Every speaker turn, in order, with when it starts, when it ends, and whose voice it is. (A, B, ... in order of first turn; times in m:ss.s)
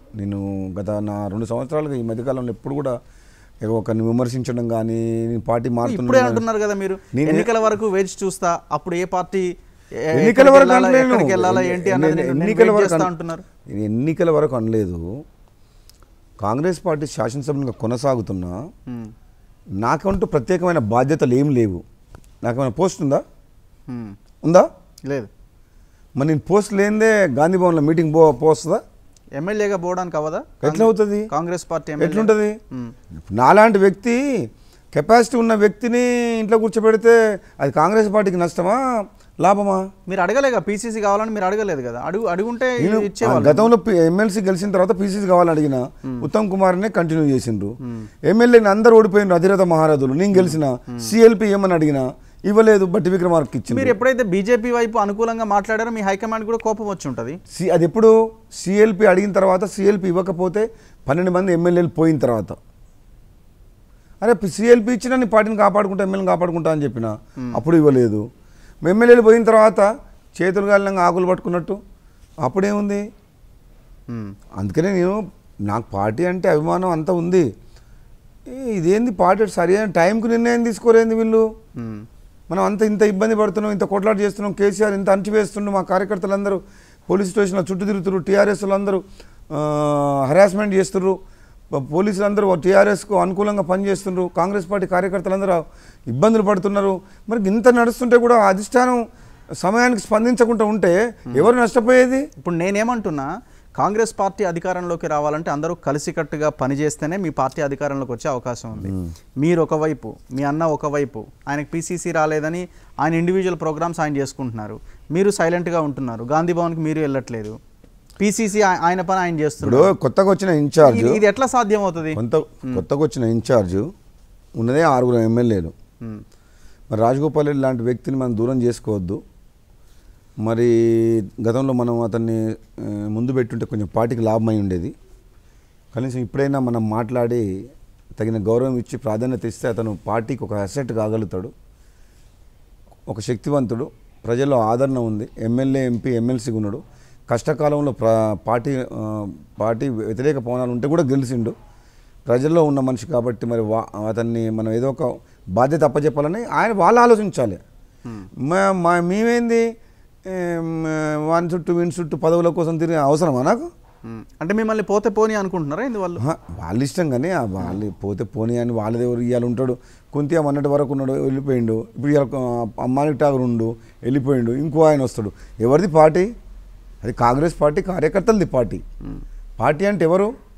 0:00.2-0:03.0 A
0:03.6-0:06.4 A
0:05.8-0:13.4 B
0:07.1-0:07.5 A
0:10.1-0:13.1 A
0:13.7-0:15.1 A
0:16.4-0:18.6 A
0:19.8-0:21.8 A
0:22.4-0:23.2 A
0:23.9-0:24.2 B
0:26.2-0:28.8 A
0:29.4-0:32.9 B
0:30.6-0:31.3 A
0:32.0-0:32.6 A
0:33.2-0:34.4 A
0:34.9-0:38.8 A
0:39.4-0:39.8 A
0:40.1-0:43.7 B
0:42.8-0:54.0 A
0:47.8-0:48.1 B
0:50.3-0:51.1 B
0:53.7-0:57.4 B
0:57.5-1:02.6 A
1:04.2-1:08.2 A
1:08.8-1:11.8 A
1:12.4-1:13.0 A
1:14.1-1:14.4 B
1:14.6-1:17.5 A
1:18.5-1:21.4 A
1:21.8-1:22.0 B
1:22.5-1:31.2 A
1:31.7-1:39.0 A
1:39.6-1:42.3 A
1:42.4-1:57.6 B
1:48.8-1:49.1 A
1:58.2-1:59.9 B
1:59.6-2:01.2 A
2:00.8-2:02.8 B
2:02.1-2:03.9 A
2:04.6-2:05.7 A
2:06.9-2:09.2 A
2:10.4-2:14.9 A
2:15.9-2:17.5 A
2:18.2-2:21.5 A
2:23.1-2:31.5 A
2:32.2-2:37.6 A
2:38.4-2:39.6 A
2:40.2-2:43.7 A
2:44.0-2:46.2 B
2:46.2-2:56.3 A
2:57.0-2:58.8 A
2:59.6-3:00.3 A